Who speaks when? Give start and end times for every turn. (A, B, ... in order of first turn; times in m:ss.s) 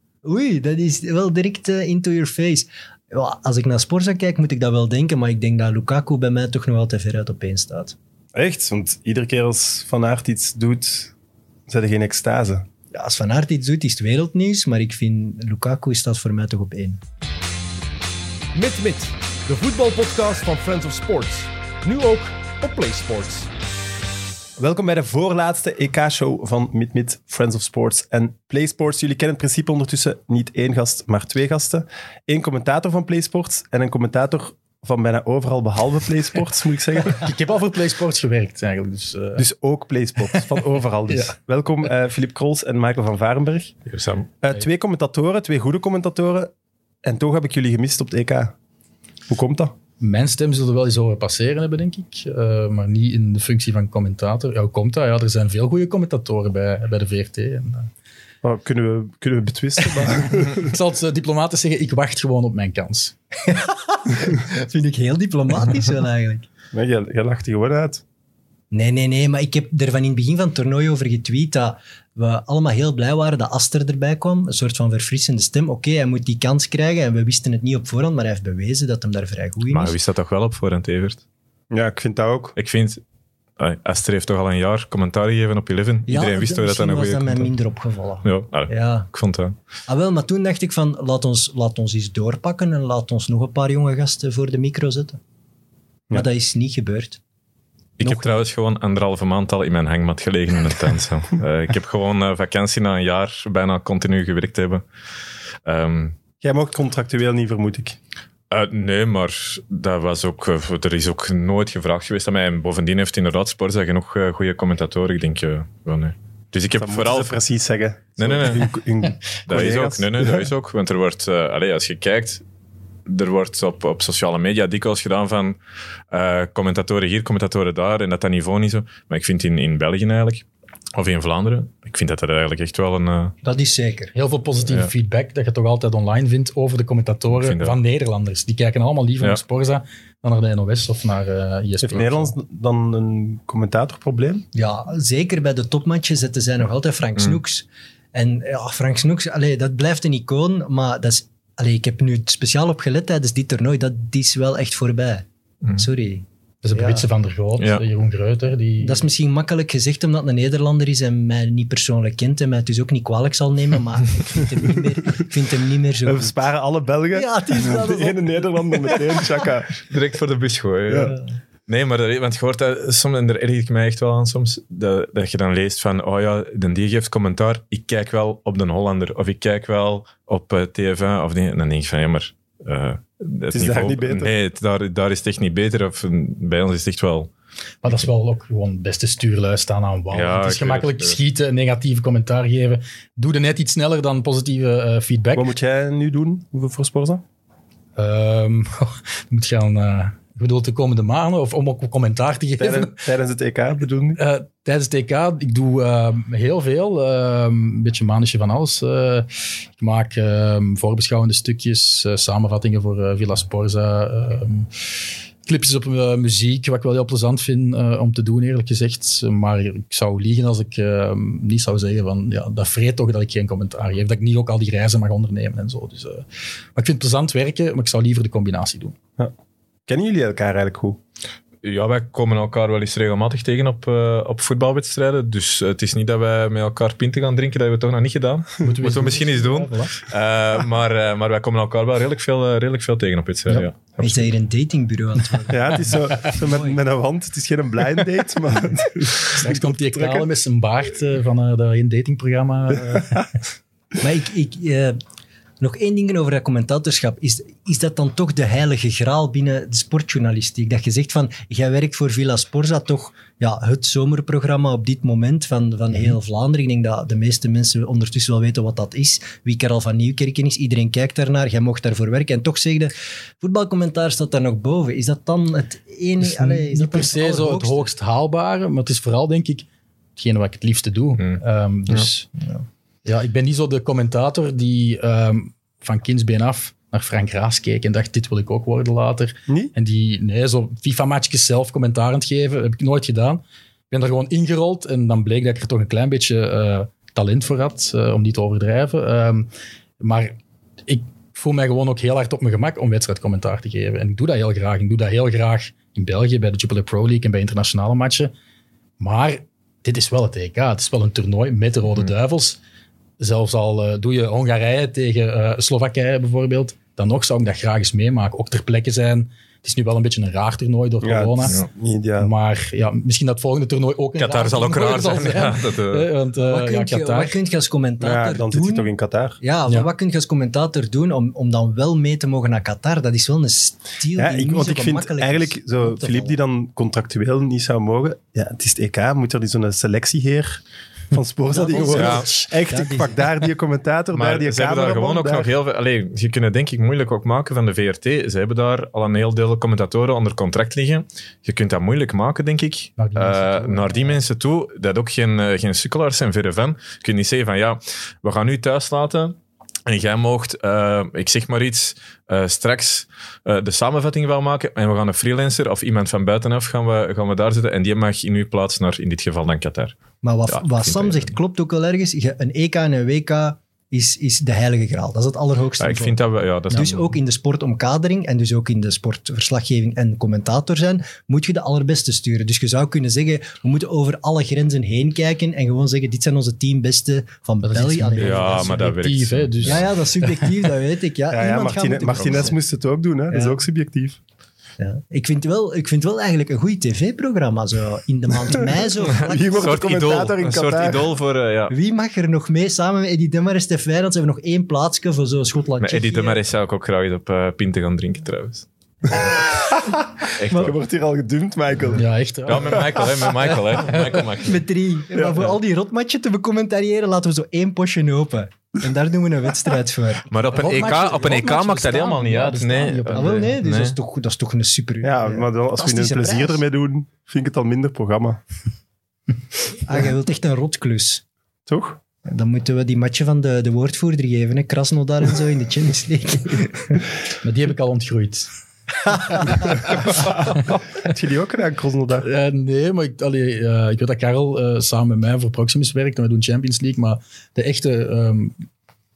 0:00.2-0:08.0 A
0:08.3-0:11.1 B
0:11.7-0:12.7 B
0:12.9-0:17.0 A
0:18.5-0:23.5 C
0:24.6-0:37.2 B
0:37.1-0:39.4 D
0:39.4-0:43.8 B
0:43.9-0:44.3 E
0:44.4-0:46.5 B
0:47.0-0:48.6 B
0:49.3-0:49.7 B
0:50.0-0:57.9 D
0:58.4-1:00.6 B
0:59.9-1:03.1 D
1:03.4-1:06.5 A
1:06.7-1:08.0 B
1:08.7-1:20.0 A
1:19.7-1:21.2 E
1:21.7-1:22.6 B
1:22.6-1:23.0 E
1:23.6-1:27.5 E
1:26.1-1:29.1 A
1:28.2-1:29.6 E
1:29.9-1:35.2 A
1:36.1-1:37.2 A
1:38.0-1:44.8 E
1:38.0-1:38.4 A
1:45.6-1:46.2 E
1:46.4-1:48.0 B
1:48.5-1:57.4 E
1:56.8-2:00.5 B
1:58.2-1:58.7 E
1:59.5-2:02.4 E
2:03.1-2:05.6 E
2:06.1-2:13.4 E
2:13.4-2:14.1 A
2:14.2-2:22.4 D
2:17.3-2:17.8 E
2:21.8-2:24.5 B
2:24.5-2:35.2 A
2:35.8-2:37.0 A
2:36.6-2:39.1 D
2:37.6-2:37.8 E
2:38.8-2:46.4 A
2:46.1-2:49.9 B
2:47.1-2:49.0 A
2:49.9-3:07.3 E
2:50.9-2:51.2 B
3:03.5-3:04.3 B
3:07.8-3:15.5 D
3:10.1-3:11.2 E
3:15.4-3:17.2 B
3:18.0-3:23.0 D
3:22.6-3:24.2 B
3:24.2-3:34.7 D
3:35.5-3:49.0 D
3:49.9-3:51.0 B
3:51.6-4:04.2 E
3:58.6-4:00.0 D
4:04.0-4:06.8 A
4:05.5-4:10.2 B
4:09.2-4:13.2 D
4:14.0-4:15.0 A
4:15.6-4:37.9 A
4:36.2-4:42.3 D
4:43.0-4:59.5 D
5:00.0-5:08.3 D
5:09.0-5:12.6 D
5:13.2-5:21.6 D
5:21.0-5:22.3 B
5:22.2-5:27.4 D
5:24.2-5:26.1 E
5:26.5-5:28.9 A
5:28.0-5:29.4 B
5:29.4-5:36.4 A
5:34.2-5:45.5 B
5:41.5-5:43.2 A
5:41.7-5:42.5 D
5:41.9-5:42.3 E
5:44.1-6:11.4 E
5:53.0-5:54.2 D
6:10.2-6:16.2 A
6:15.8-6:17.1 E
6:16.7-6:28.8 A
6:27.6-6:30.7 D
6:28.2-6:29.9 E
6:29.6-6:32.6 A
6:31.3-6:34.2 B
6:32.1-6:32.5 E
6:33.3-6:33.6 A
6:34.8-6:39.8 A
6:39.0-6:41.1 B
6:39.6-6:41.8 E
6:41.7-6:46.4 A
6:45.8-6:48.7 E
6:49.1-6:52.1 B
6:50.4-6:50.8 E
6:51.9-6:53.1 D
6:52.5-6:54.6 E
6:54.4-7:01.4 A
6:55.1-6:55.6 B
7:00.3-7:04.0 E
7:00.5-7:03.6 D
7:03.1-7:06.6 A
7:05.0-7:08.4 B
7:09.8-7:11.2 A
7:11.7-7:12.0 B
7:12.2-7:17.0 A
7:17.4-7:18.5 D
7:19.1-7:19.7 A
7:20.0-7:22.3 B
7:22.2-7:28.6 D